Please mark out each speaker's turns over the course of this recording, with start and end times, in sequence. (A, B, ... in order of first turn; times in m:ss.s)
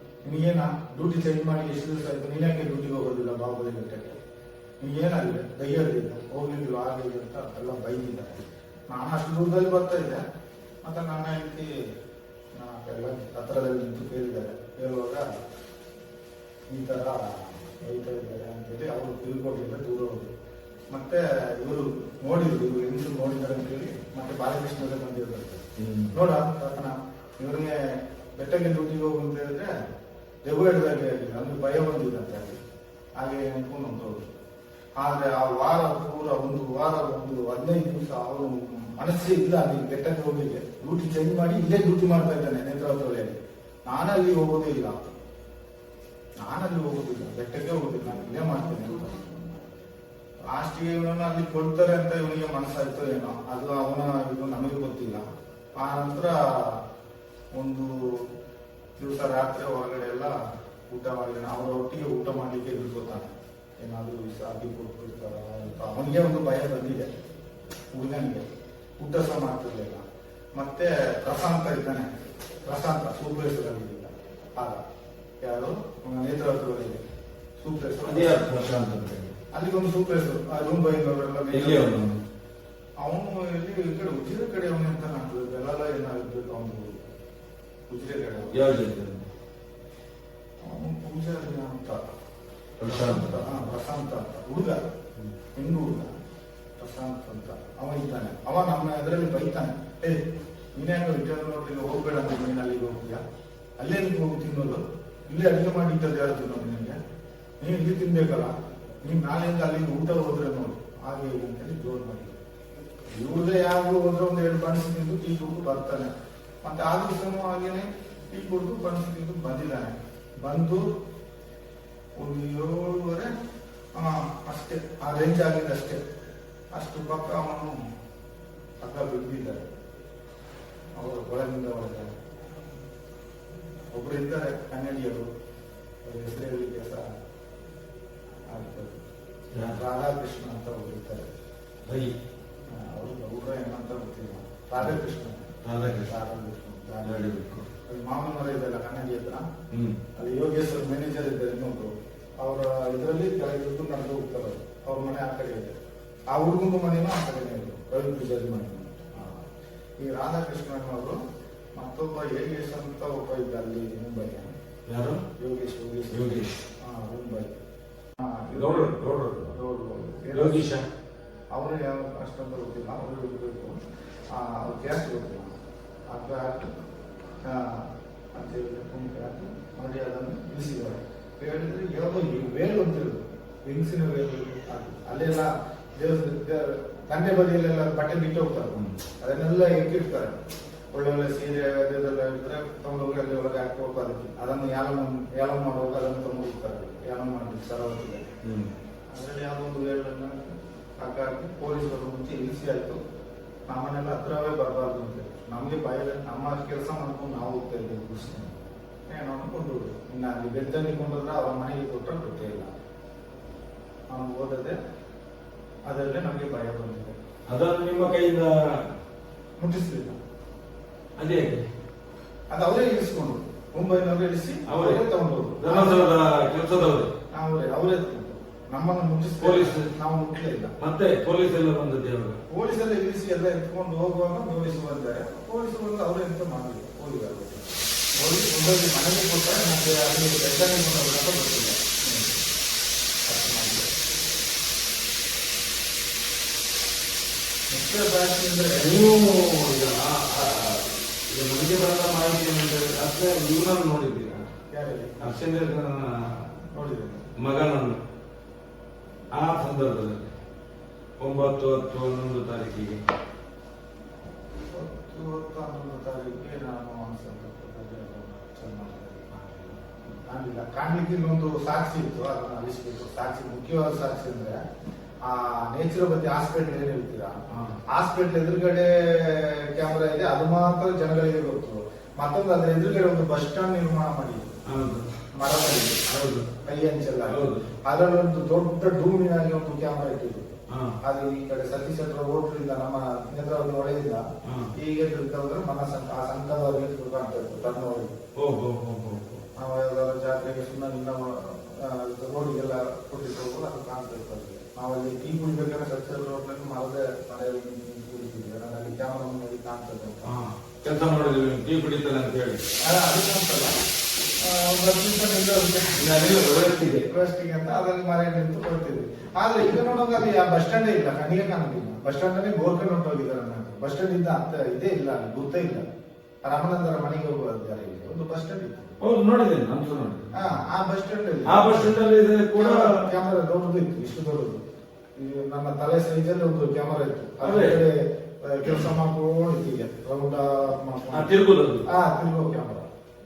0:00.2-0:04.2 A
0:04.8-0:10.2 A
0:10.8-0:11.7 A
0:12.6-0:15.4 A
0:16.7-0:20.3 A
0:20.9-0:29.7 A
0:25.8-0:26.1 B
0:30.4-0:32.6 A
0:33.2-0:34.3 A
0:35.0-0:45.1 A
0:46.4-0:49.6 A
0:50.5-0:56.8 A
0:57.5-0:58.3 A
0:59.0-1:00.4 A
1:00.9-1:07.1 A
1:07.9-1:08.4 A
1:09.0-1:12.1 A
1:12.6-1:14.8 A
1:15.4-1:17.0 A
1:17.6-1:18.5 A
1:18.0-1:19.4 B
1:19.5-1:22.0 A
1:21.5-1:22.2 B
1:23.0-1:27.2 A
1:27.9-1:28.6 A
1:28.5-1:29.3 B
1:30.6-1:32.0 A
1:32.8-1:33.5 B
1:32.9-1:34.9 A
1:35.6-1:36.1 A
1:36.8-1:40.2 A
1:40.8-1:43.2 A
1:43.8-1:47.0 A
1:47.6-1:52.4 A
1:53.1-1:56.1 A
1:56.6-2:00.9 A
2:02.2-2:03.3 A
2:03.9-2:06.0 A
2:06.7-2:07.8 A
2:08.8-2:09.6 A
2:11.0-2:12.1 A
2:13.9-2:15.3 A
2:16.0-2:17.1 A
2:18.5-2:19.0 A
2:19.5-2:19.8 B
2:19.6-2:21.3 A
2:21.9-2:22.1 B
2:22.7-2:29.5 A
2:25.6-2:26.1 B
2:27.0-2:27.7 B
2:29.7-2:30.0 B
2:30.2-2:35.7 A
2:36.3-2:39.5 A
2:40.0-2:41.2 A
2:41.8-2:44.5 A
2:44.9-2:45.2 B
2:45.4-2:47.6 A
2:46.1-2:46.5 B
2:48.2-2:50.7 A
2:48.5-2:49.5 B
2:50.3-2:50.8 B
2:51.5-2:55.6 A
2:56.1-2:56.7 A
2:57.4-3:10.4 A
3:10.9-3:18.3 A
3:18.4-3:18.7 B
3:19.1-3:23.0 A
3:23.7-3:28.5 A
3:29.1-3:32.7 A
3:34.1-3:34.8 A
3:35.9-3:37.2 A
3:37.5-3:38.9 B
3:39.6-3:40.2 A
3:41.2-3:41.6 B
3:42.5-3:46.1 A
3:44.7-3:45.0 B
3:45.6-3:47.1 B
3:47.3-3:50.8 A
3:49.4-3:49.9 B
3:50.8-3:52.4 B
3:52.5-4:02.3 A
4:03.3-4:03.9 A
4:07.7-4:09.0 A
4:08.7-4:14.5 B
4:14.7-4:15.2 A
4:15.2-4:16.5 B
4:16.7-4:17.3 A
4:17.4-4:18.0 B
4:19.3-4:20.3 B
4:21.2-4:23.0 B
4:24.7-4:34.6 A
4:35.2-4:44.6 A
4:37.5-4:37.8 B
4:44.6-4:45.1 B
4:45.3-4:46.1 A
4:46.1-4:46.5 B
4:46.6-4:50.5 A
4:47.3-4:47.7 B
4:50.7-4:51.0 B
4:51.0-4:58.1 A
4:54.4-4:54.7 B
4:58.4-4:59.4 B
4:59.6-5:10.3 A
5:10.2-5:12.6 B
5:12.8-5:13.8 A
5:14.4-5:16.1 A
5:16.0-5:17.1 B
5:17.0-5:25.8 A
5:26.4-5:29.0 A
5:29.0-5:30.6 B
5:30.3-5:32.0 A
5:31.4-5:33.1 B
5:32.5-5:34.6 A
5:35.2-5:41.3 A
5:37.4-5:37.8 B
5:41.1-5:41.9 B
5:41.9-5:42.9 A